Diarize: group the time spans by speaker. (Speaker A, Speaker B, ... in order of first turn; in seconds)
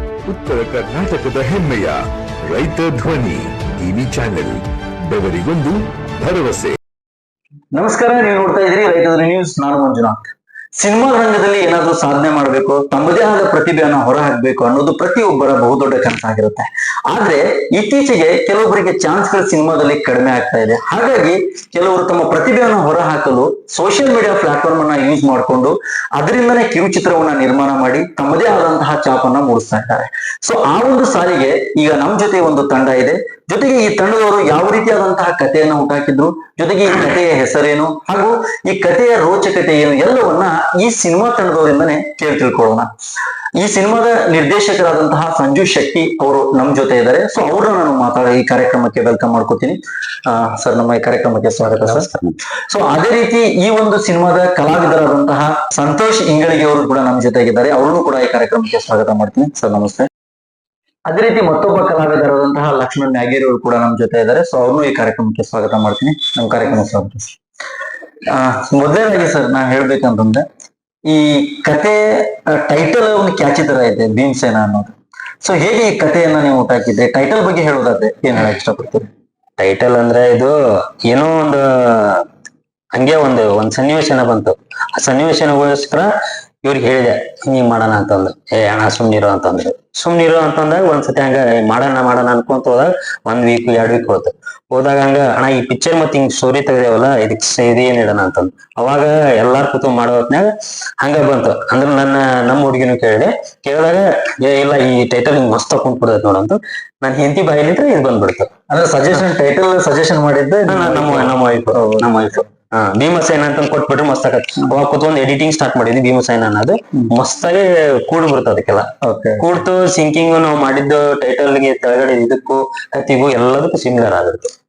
Speaker A: 0.2-6.8
Speaker B: 7.7-10.2, 10.8-42.9, 43.6-52.1, 52.7-60.1, 61.1-67.3, 68.3-70.4, 71.1-74.9, 75.4-79.1, 108.7-112.1, 119.0-119.5
Speaker C: 51.7-52.3, 79.6-80.5, 81.1-82.2, 82.9-86.1, 86.6-100.5, 101.0-108.5, 110.7-118.9, 119.4-124.5